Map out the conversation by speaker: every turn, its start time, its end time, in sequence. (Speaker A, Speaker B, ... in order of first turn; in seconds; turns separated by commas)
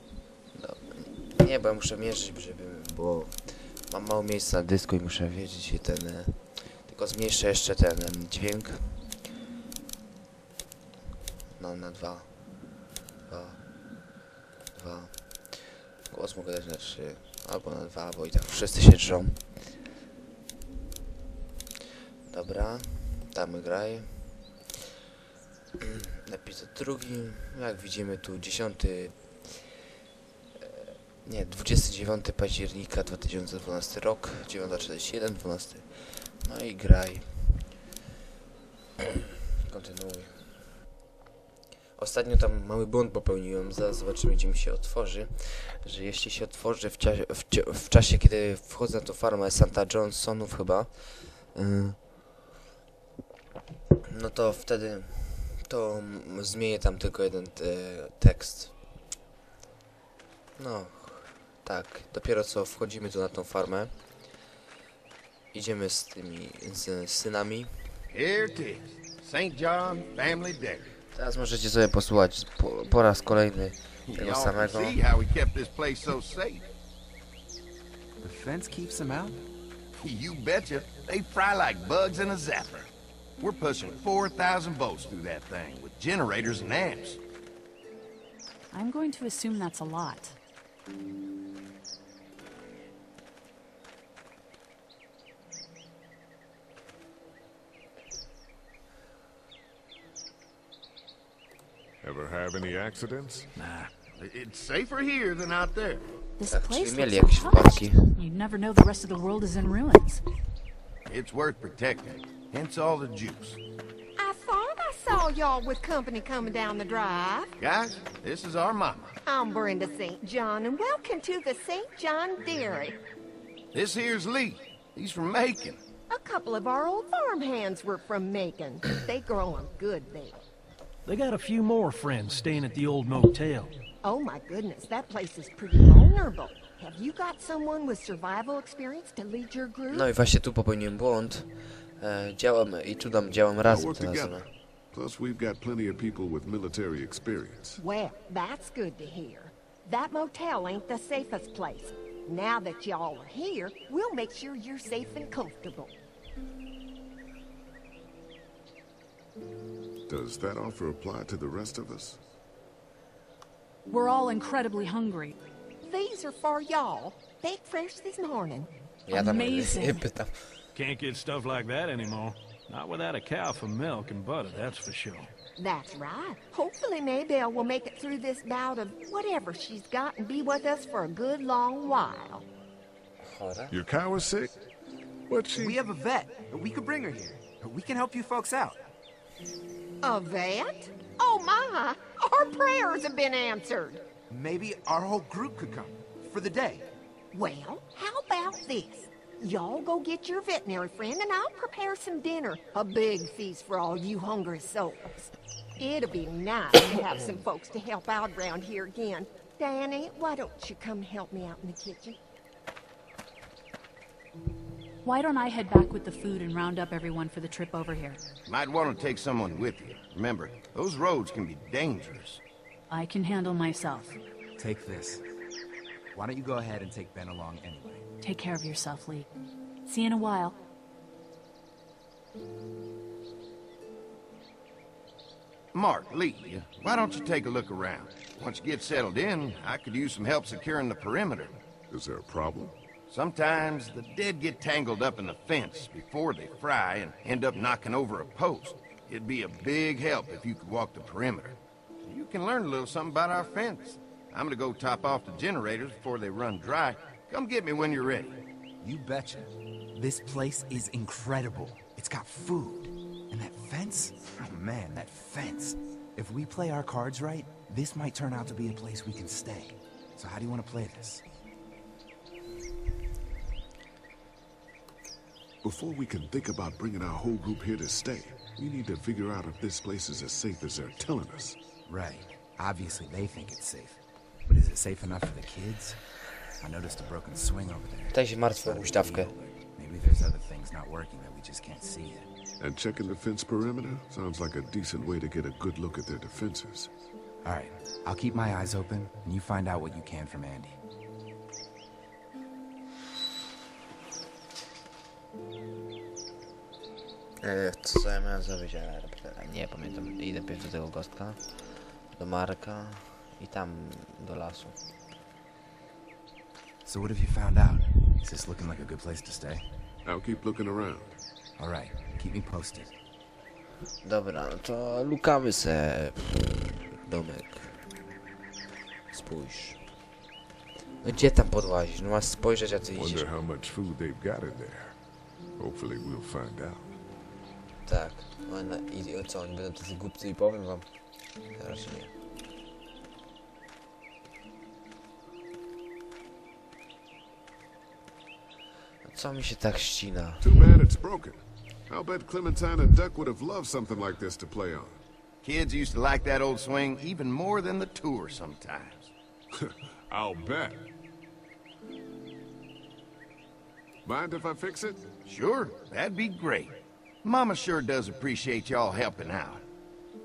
Speaker A: 0.5-9.2, Speaker A: 11.5-13.7, Speaker A: 14.7-19.8, Speaker A: 22.3-24.6, Speaker A: 25.8-29.9, Speaker A: 30.6-37.7, Speaker A: 39.6-40.7, Speaker A: 42.0-52.0, Speaker A: 54.1-58.9, Speaker A: 60.6-63.9, Speaker A: 65.5-68.0, Speaker B: 68.1-70.9, Speaker A: 71.1-75.0, Speaker B: 74.0-76.7, Speaker C: 78.2-79.4, Speaker B: 80.0-87.2, Speaker D: 88.7-90.3, Speaker E: 102.0-103.5, Speaker F: 103.5-103.9, Speaker B: 104.2-106.0, Speaker D: 106.4-110.2, Speaker A: 106.5-108.1, Speaker B: 111.1-113.6, Speaker G: 114.2-117.5, Speaker B: 117.6-119.2, Speaker G: 119.2-123.0, Speaker B: 123.7-125.8, Speaker G: 126.1-130.4, Speaker F: 131.0-133.7, Speaker G: 134.0-140.1, Speaker A: 139.9-144.4, Speaker E: 143.6-147.8, Speaker G: 147.8-155.9, Speaker E: 160.1-162.2, Speaker D: 163.9-165.4, Speaker G: 165.8-168.7, Speaker A: 169.1-170.6, Speaker D: 169.1-170.0, Speaker F: 170.7-175.3, Speaker G: 175.6-182.5, Speaker A: 183.2-183.8, Speaker E: 183.7-184.6, Speaker E: 185.3-185.8, Speaker C: 185.5-188.8, Speaker G: 190.0-194.0, Speaker C: 194.3-196.9, Speaker G: 197.3-212.2, Speaker D: 215.0-218.2, Speaker B: 218.5-222.4, Speaker D: 222.9-224.2, Speaker C: 224.6-225.2, Speaker C: 226.1-228.1, Speaker D: 228.2-229.3, Speaker D: 229.8-230.6, Speaker B: 235.7-241.5, Speaker E: 241.9-242.7, Speaker B: 243.1-258.4, Speaker C: 258.8-271.2, Speaker E: 275.6-281.6, Speaker C: 281.9-286.0, Speaker C: 286.6-292.3, Speaker A: 288.1-289.3, Speaker E: 292.6-296.9, Speaker C: 297.4-300.8, Speaker A: 307.4-314.8, Speaker C: 316.8-319.7, Speaker E: 320.0-321.1, Speaker C: 321.6-322.9, Speaker A: 324.0-327.9, Speaker A: 329.1-329.9, Speaker A: 331.0-333.2, Speaker E: 332.9-335.0, Speaker E: 335.6-336.9, Speaker A: 337.8-342.1, Speaker A: 349.0-350.6, Speaker E: 350.4-355.0, Speaker B: 355.4-359.1, Speaker E: 359.6-360.9, Speaker E: 364.0-365.0, Speaker B: 365.2-369.6